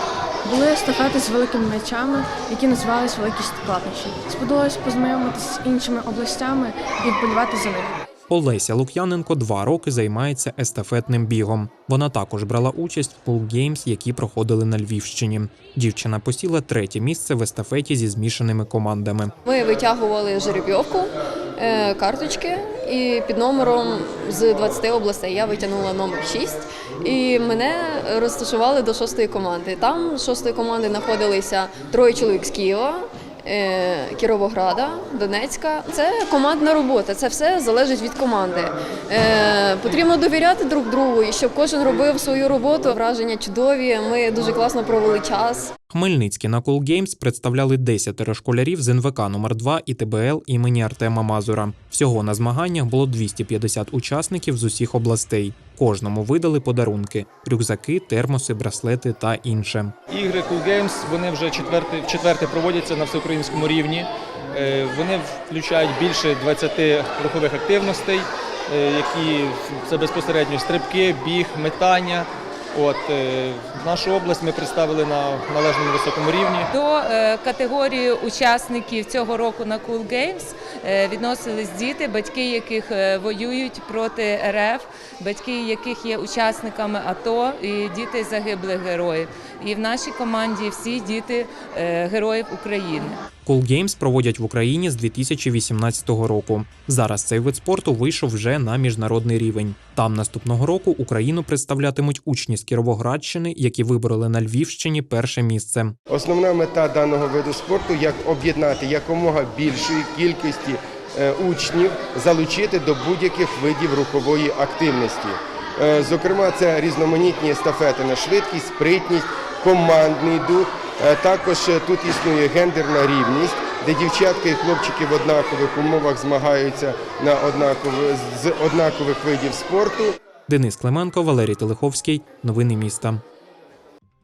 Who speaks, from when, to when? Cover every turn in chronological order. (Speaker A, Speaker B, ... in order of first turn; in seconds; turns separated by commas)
Speaker A: 0.5-7.9, Speaker B: 8.3-19.3, Speaker C: 19.5-45.6, Speaker B: 45.9-59.9, Speaker D: 60.1-76.7, Speaker E: 76.7-93.2, Speaker B: 93.4-106.0, Speaker F: 106.1-130.2, Speaker B: 130.5-133.2